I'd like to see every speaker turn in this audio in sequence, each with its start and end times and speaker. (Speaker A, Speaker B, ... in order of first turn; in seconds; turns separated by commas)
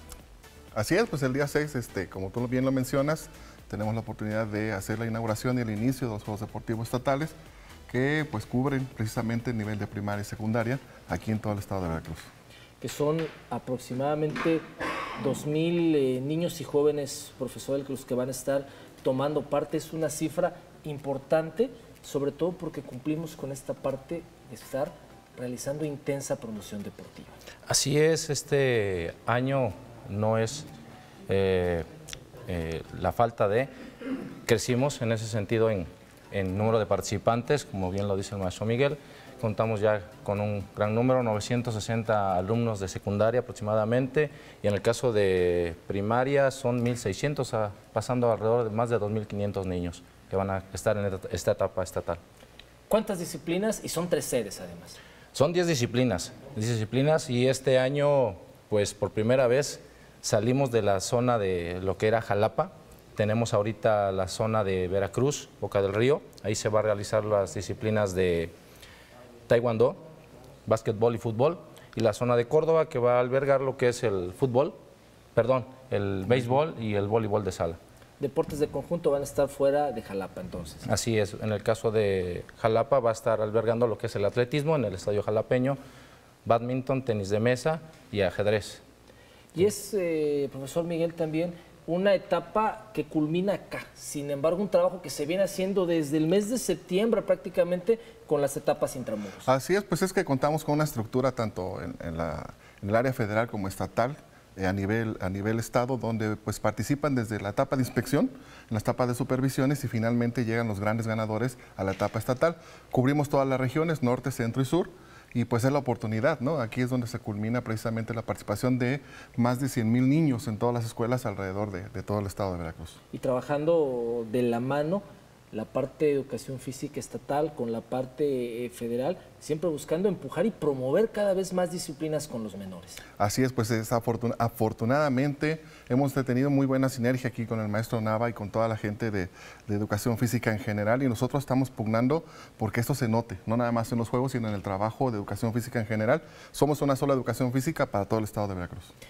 Speaker A: 0.7-7.3, Speaker A: 7.9-12.3, Speaker B: 12.8-14.7, Speaker B: 15.2-27.4, Speaker C: 27.7-30.7, Speaker C: 31.3-31.9, Speaker C: 32.5-33.7, Speaker C: 34.5-52.2, Speaker B: 52.9-55.0, Speaker C: 55.3-68.5, Speaker C: 69.5-70.0, Speaker C: 70.7-74.8, Speaker C: 75.3-77.8, Speaker B: 78.2-80.8, Speaker C: 80.8-85.8, Speaker C: 86.4-88.8, Speaker B: 89.5-99.5, Speaker A: 99.4-123.0, Speaker B: 123.1-133.0, Speaker A: 133.2-148.9